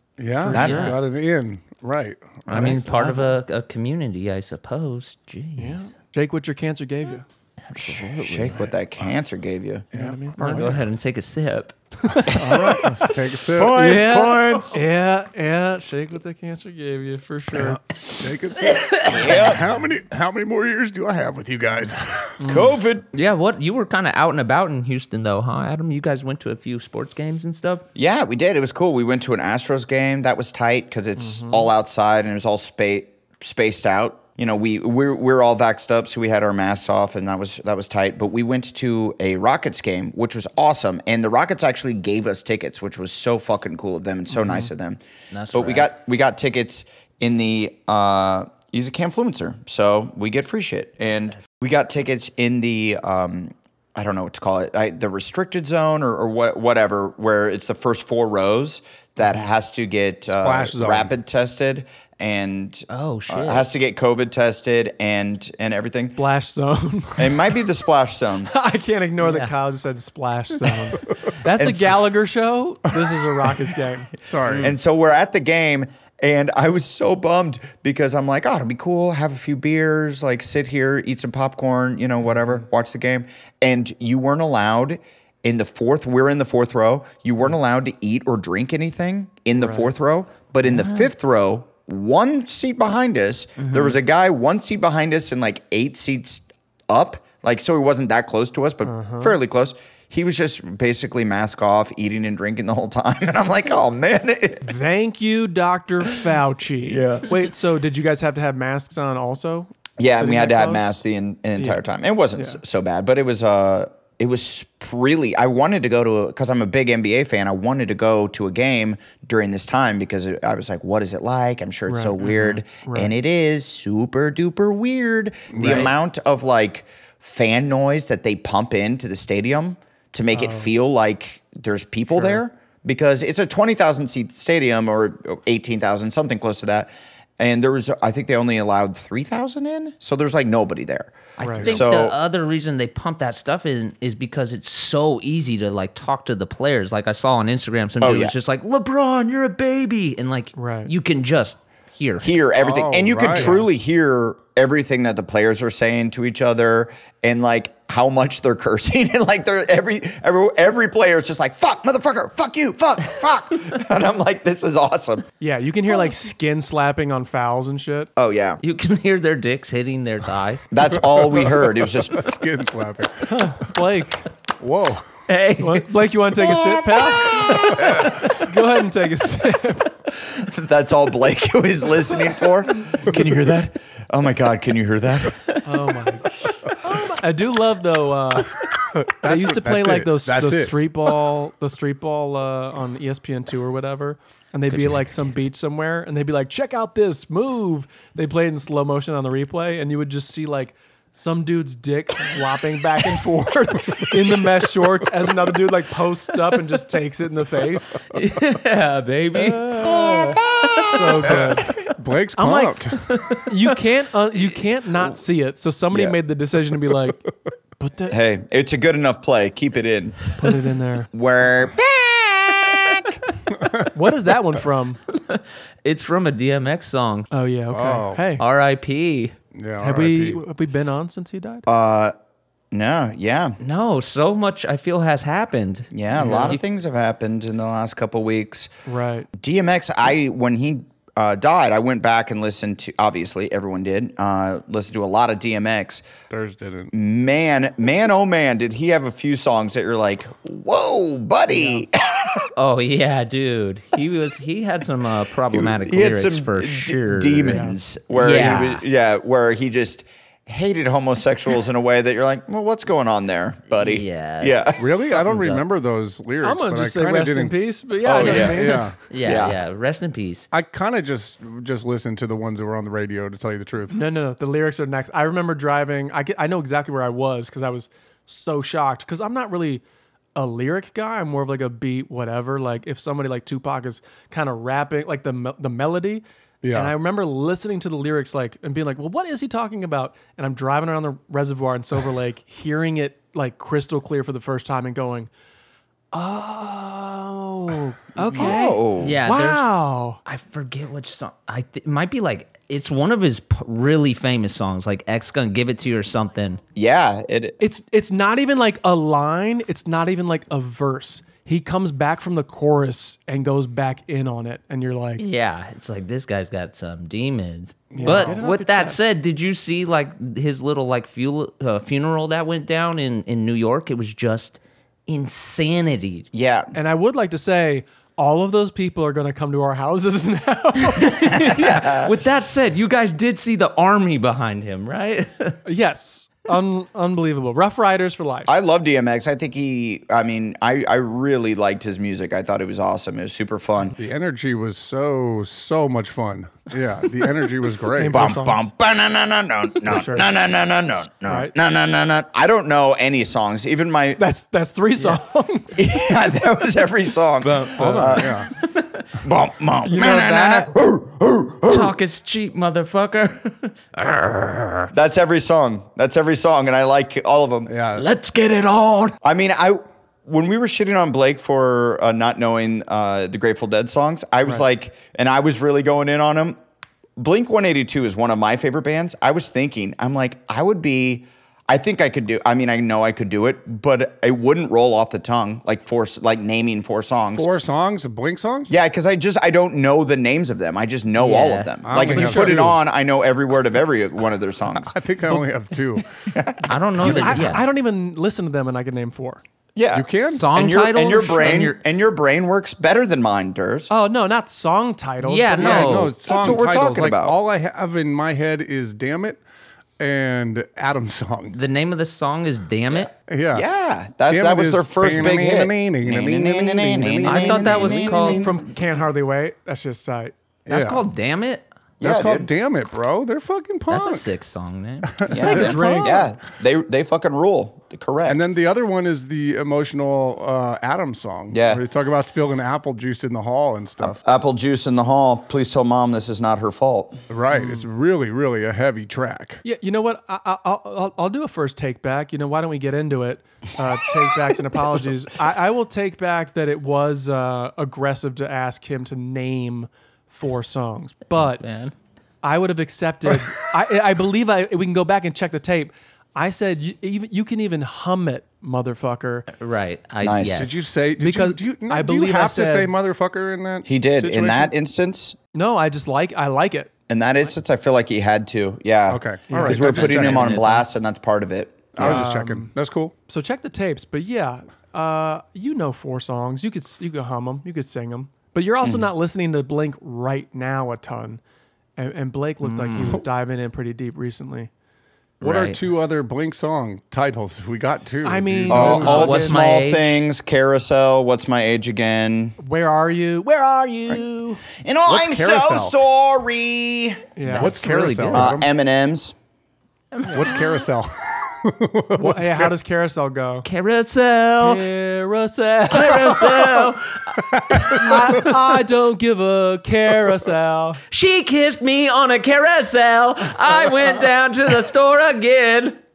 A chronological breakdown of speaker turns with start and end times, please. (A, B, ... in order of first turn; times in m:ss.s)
0:00.2-0:03.2 A
0:00.4-0:00.9 B
0:00.5-0:01.0 C
0:00.5-0:01.0 D
0:02.5-0:02.8 D
0:02.5-0:05.8 C
0:05.6-0:07.2 B
0:07.7-0:08.7 C
0:07.7-0:09.9 D
0:09.9-0:10.8 B
0:09.9-0:10.8 A
0:10.4-0:11.8 C
0:12.0-0:17.8 B
0:12.7-0:14.8 A
0:17.5-0:22.5 A
0:18.9-0:19.5 C
0:19.2-0:19.6 D
0:22.4-0:22.7 B
0:22.4-0:23.1 D
0:23.1-0:27.9 C
0:28.0-0:45.0 D
0:31.2-0:31.7 B
0:44.4-0:44.6 B
0:45.3-0:45.9 C
0:45.5-1:06.2 D
1:00.3-1:01.1 A
1:02.9-1:03.7 C
1:06.2-1:07.4 B
1:07.2-1:08.5 D
1:08.5-1:14.2 B
1:09.2-1:09.5 C
1:11.5-1:12.0 D
1:14.2-1:14.7 A
1:14.5-1:14.7 C
1:14.6-1:44.7 D
1:29.6-1:29.9 B
1:30.6-1:31.1 C
1:33.6-1:34.0 C
1:38.8-1:39.4 B
1:44.6-1:51.0 B
1:46.9-1:47.3 D
1:50.0-2:22.2 D
1:52.4-1:52.6 B
2:01.9-2:03.1 B
2:05.5-2:05.9 A
2:05.6-2:05.9 B
2:10.3-2:10.7 B
2:21.4-2:21.7 B
2:21.4-2:32.4 C
2:28.0-2:28.3 D
2:30.6-2:30.9 B
2:32.2-2:45.2 D
2:32.6-2:33.6 A
2:33.3-2:33.6 B
2:45.4-2:48.1 B
2:48.2-2:48.6 D
2:48.6-2:50.7 C
2:50.7-2:52.3 D
2:51.1-2:53.6 A
2:53.3-2:54.3 B
2:54.6-2:55.2 A
2:55.3-2:58.5 C
2:55.6-2:59.9 B
3:00.2-3:05.5 D
3:05.6-3:06.3 B
3:06.8-3:08.5 B
3:08.9-3:10.8 A
3:09.2-3:28.0 B
3:14.7-3:15.3 C
3:28.1-3:31.6 C
3:29.6-3:30.4 B
3:30.9-3:31.7 B
3:31.0-3:33.2 A
3:32.4-3:37.3 B
3:33.1-3:33.4 C
3:35.9-3:36.2 D
3:37.8-3:38.2 B
3:38.1-3:40.5 D
3:40.4-3:41.1 B
3:41.1-3:43.1 D
3:43.5-3:43.9 A
3:43.9-3:45.0 B
3:45.1-3:47.3 C
3:47.3-3:48.4 B
3:47.7-3:48.2 A
3:48.4-3:49.4 C
3:49.5-3:50.4 A
3:49.8-3:51.6 B
3:51.7-3:52.1 D
3:52.7-3:53.6 D
3:53.6-3:56.6 C
3:55.9-3:58.7 D
3:56.2-3:56.5 B
3:58.9-3:59.3 B
3:59.4-4:06.0 D
4:06.3-4:06.9 A
4:06.9-4:12.5 D
4:11.5-4:11.8 B
4:12.6-4:18.8 C
4:15.5-4:25.0 D
4:17.5-4:17.8 B
4:23.8-4:24.6 C
4:24.8-4:29.0 A
4:25.1-4:25.6 C
4:26.4-4:28.9 B
4:28.1-4:29.6 D
4:29.1-4:30.5 C
4:30.5-4:34.0 A
4:33.9-4:39.8 B
4:40.4-4:55.3 B
4:46.6-4:46.9 A
4:56.1-5:00.2 B
4:58.2-4:59.2 D
4:58.4-4:59.7 C
5:00.2-5:06.6 C
5:06.8-5:07.6 D
5:07.6-5:15.2 B
5:15.2-5:26.3 C
5:17.9-5:18.4 A
5:17.9-5:19.0 B
5:26.3-5:26.7 D
5:26.7-5:31.6 B
5:31.1-5:35.6 C
5:31.5-5:32.1 D
5:35.6-5:38.5 B
5:38.5-5:44.0 D
5:44.0-5:48.4 A
5:48.0-5:48.7 B
5:48.1-5:54.2 D
5:49.9-5:50.3 B
5:51.3-5:51.5 B
5:54.2-5:55.9 B
5:55.8-5:58.5 D
5:57.4-5:59.1 C
5:57.8-5:58.5 A
5:59.2-6:02.0 D
5:59.9-6:00.7 C
5:59.9-6:00.6 B
6:01.7-6:04.9 C
6:04.9-6:07.8 D
6:07.7-6:08.0 A
6:08.0-6:09.2 C
6:09.2-6:16.6 D
6:17.2-6:27.5 D
6:27.3-6:28.7 A
6:28.7-6:35.0 D
6:31.2-6:31.7 C
6:31.8-6:32.8 A
6:32.0-6:32.7 B
6:34.7-6:36.1 A
6:36.3-6:37.5 D
6:36.7-6:37.6 C
6:37.0-6:39.4 B
6:39.8-6:43.9 D
6:39.9-6:40.5 A
6:40.3-6:41.8 C
6:41.1-6:41.6 A
6:43.9-6:46.1 B
6:45.2-6:46.2 C
6:45.6-6:49.4 A
6:45.9-6:47.4 D
6:50.0-6:51.6 A
6:51.5-6:53.1 C
6:52.9-6:58.5 D
6:53.3-6:53.7 A
6:54.3-6:58.6 A
6:57.2-6:58.6 C
6:58.3-7:00.4 B
7:00.7-7:01.1 A
7:00.7-7:01.7 C
7:02.0-7:02.5 D
7:02.0-7:04.3 A
7:03.9-7:05.7 C
7:05.2-7:06.2 A
7:05.3-7:08.4 D
7:05.3-7:06.3 B
7:08.3-7:14.2 A
7:11.5-7:11.8 D
7:14.0-7:17.2 D
7:17.3-7:19.6 A
7:17.5-7:17.8 B
7:19.6-7:31.6 B
7:31.4-7:31.9 C
7:32.4-7:39.5 B
7:39.5-7:40.9 C
7:40.2-7:40.7 D
7:40.5-7:44.7 A
7:41.2-7:42.9 B
7:43.8-7:45.4 D
7:45.5-7:47.5 B
7:47.1-7:52.2 D
7:49.1-7:50.6 A
7:49.5-7:50.0 B
7:49.6-7:50.9 C
7:52.0-7:53.1 A
7:52.0-7:52.7 B
7:53.3-8:01.4 B
7:58.8-7:59.1 D
8:02.0-8:04.7 B
8:02.6-8:03.2 C
8:05.4-8:05.8 C
8:05.4-8:09.5 A
8:08.2-8:09.5 B
8:08.7-8:12.6 D
8:08.8-8:10.2 C
8:12.6-8:14.6 B
8:14.8-8:17.2 D
8:15.1-8:16.0 A
8:17.4-8:18.3 B
8:17.5-8:18.7 A
8:17.5-8:18.6 C
8:18.3-8:19.3 D
8:20.1-8:20.7 C
8:20.3-8:22.7 A
8:22.2-8:23.7 B
8:23.6-8:24.8 C
8:24.6-8:27.0 B
8:25.9-8:28.4 C
8:27.5-8:28.6 A
8:27.8-8:31.0 B
8:31.1-8:36.0 C